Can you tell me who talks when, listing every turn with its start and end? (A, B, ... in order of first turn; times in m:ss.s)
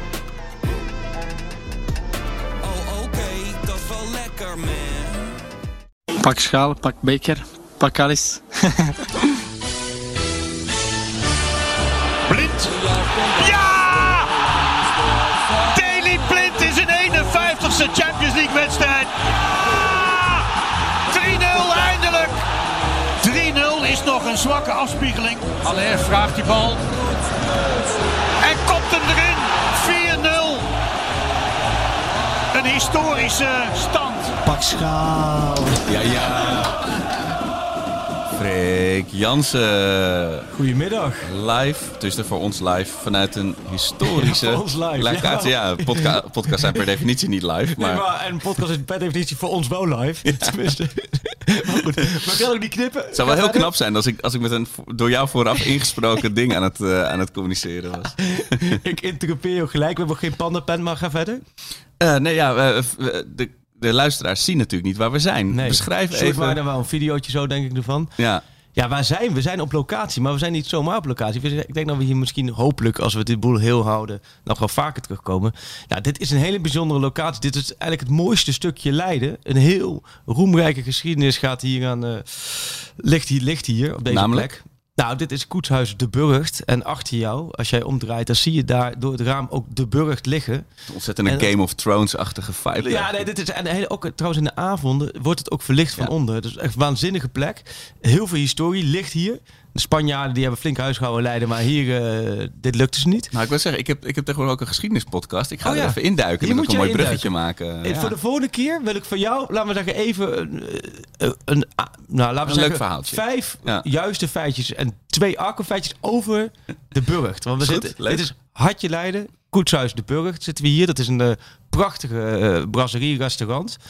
0:02.6-0:05.3 A
0:06.2-0:08.9 B
0:12.3-0:14.3 C
0:15.7-0:19.1 C
0:19.6-0:20.5 C
0:21.1-0:22.4 C
0:23.2-0:26.8 C
0:28.4-0:30.7 C
0:32.5-0:35.7 C
0:35.8-0:36.8 D
0:36.3-0:36.8 E
0:38.3-0:40.5 D
0:40.5-0:41.3 E
0:41.2-0:48.0 D
0:44.0-0:46.8 E
0:47.7-0:53.7 E
0:51.7-0:52.2 D
0:53.1-0:58.8 D
0:58.2-1:01.4 E
1:02.0-1:06.6 D
1:05.5-1:08.1 E
1:08.2-1:08.4 D
1:08.7-1:30.6 E
1:24.1-1:24.5 D
1:30.9-1:33.3 D
1:31.2-1:31.5 E
1:32.8-1:43.3 E
1:43.3-1:48.2 D
1:45.6-2:03.8 E
1:52.4-1:53.8 D
1:57.6-1:58.3 D